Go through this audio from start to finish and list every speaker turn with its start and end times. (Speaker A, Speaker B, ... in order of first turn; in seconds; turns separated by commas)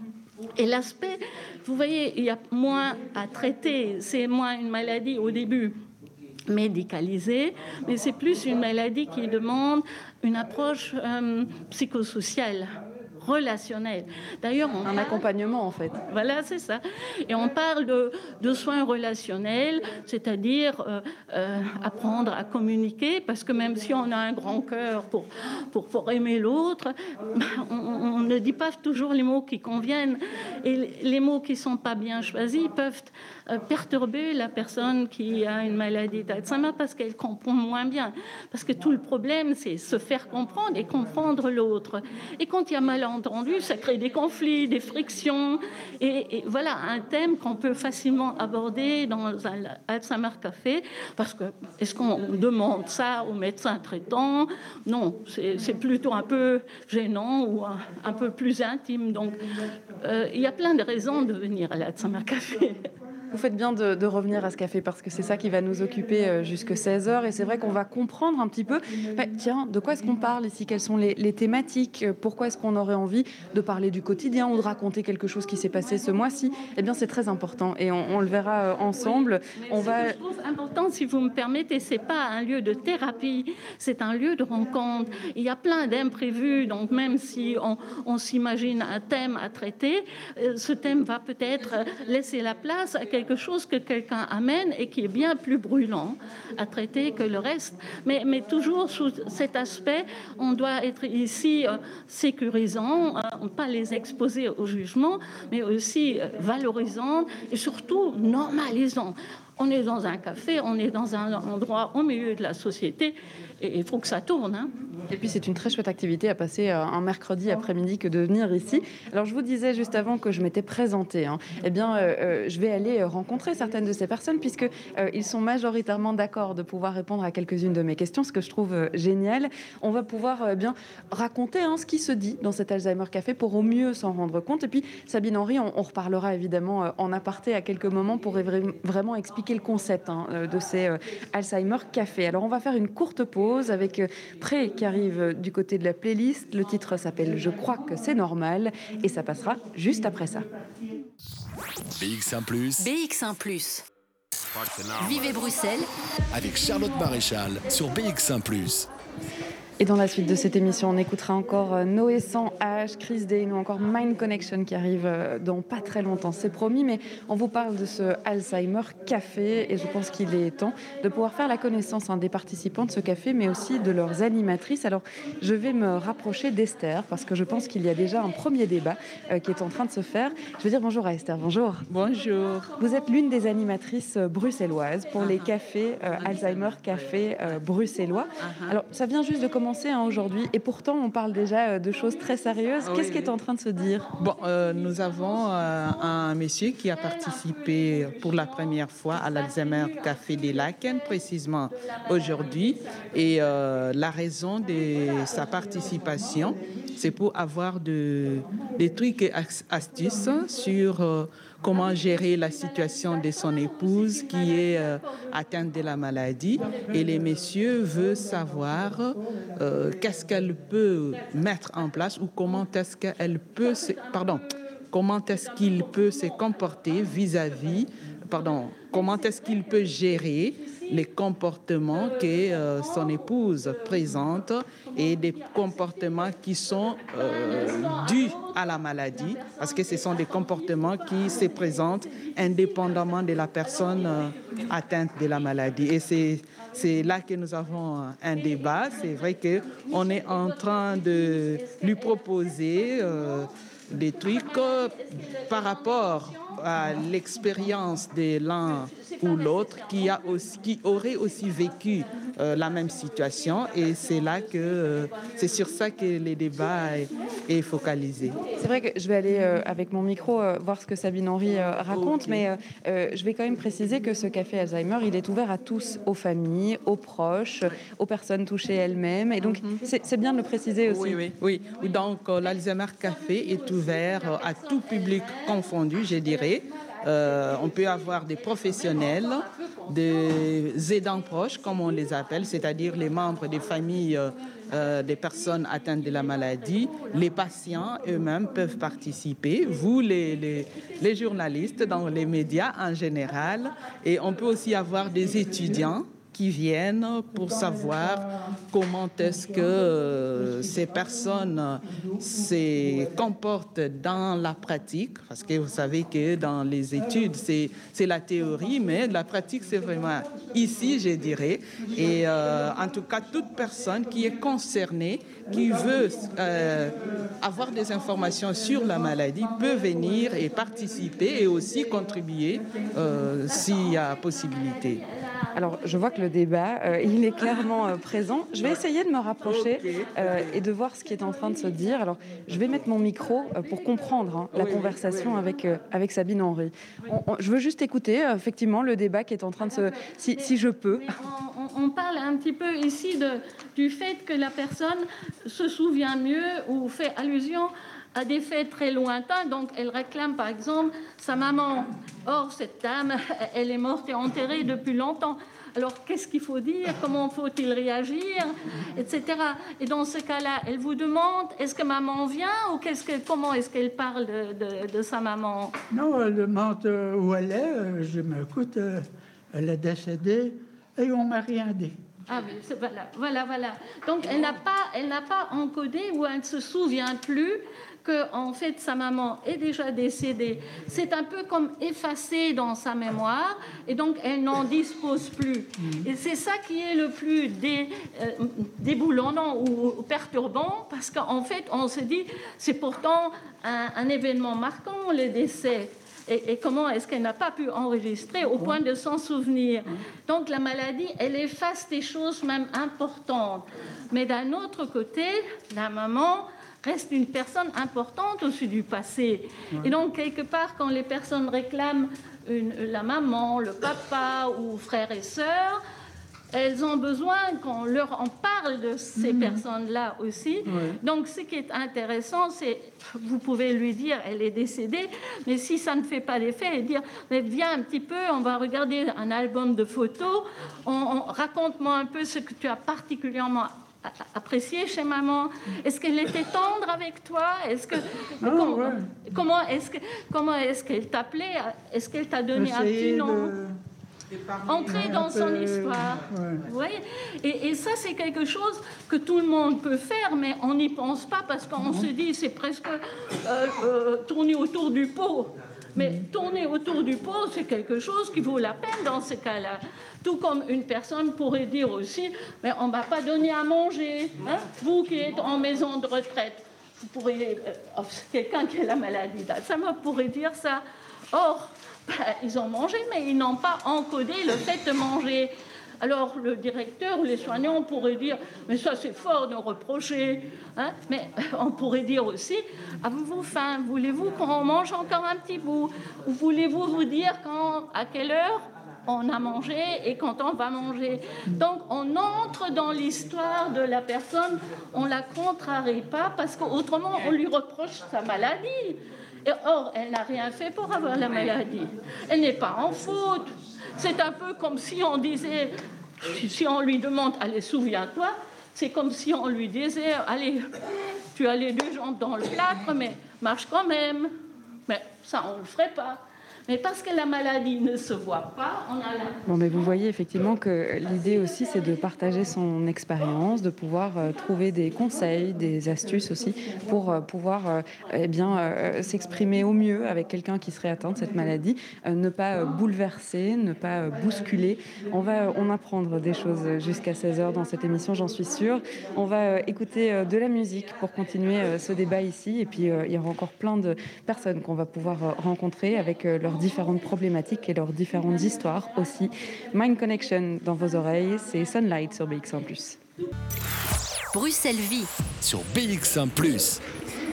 Speaker A: 0.5-5.8, Speaker A: 6.5-15.2, Speaker B: 14.8-16.0, Speaker A: 16.0-59.4, Speaker A: 60.0-62.9, Speaker B: 63.3-80.2, Speaker A: 79.5-114.7, Speaker B: 115.1-150.5, Speaker C: 151.9-152.9, Speaker D: 152.8-153.8, Speaker D: 155.0-155.9, Speaker C: 156.3-158.9, Speaker B: 159.8-194.1, Speaker A: 181.9-182.9, Speaker A: 184.9-186.3, Speaker E: 186.3-186.7, Speaker A: 192.3-192.9, Speaker E: 192.9-193.3, Speaker A: 193.8-196.3, Speaker E: 194.2-268.4, Speaker A: 196.9-203.5, Speaker A: 211.7-215.8, Speaker A: 221.1-222.1, Speaker A: 223.6-224.7, Speaker A: 225.3-227.5, Speaker A: 228.4-231.1, Speaker A: 231.9-236.4, Speaker A: 237.0-245.3, Speaker A: 248.3-256.9, Speaker A: 258.6-265.9, Speaker A: 268.2-268.6, Speaker B: 268.5-281.2, Speaker E: 280.9-335.0, Speaker A: 282.1-297.6, Speaker A: 300.8-301.6, Speaker A: 333.5-336.3, Speaker B: 335.6-351.1, Speaker A: 337.2-337.6, Speaker A: 342.8-344.4, Speaker A: 349.6-375.8, Speaker F: 375.9-382.0, Speaker A: 382.3-425.8, Speaker A: 426.5-453.5, Speaker F: 429.2-429.6, Speaker F: 430.7-431.0, Speaker F: 448.4-449.2, Speaker F: 452.5-453.7, Speaker F: 454.4-456.7, Speaker A: 454.6-520.7, Speaker F: 461.8-462.1, Speaker F: 466.0-466.3, Speaker A: 521.3-524.3, Speaker A: 524.9-529.4, Speaker B: 529.5-563.0, Speaker D: 564.3-565.1, Speaker C: 565.4-566.8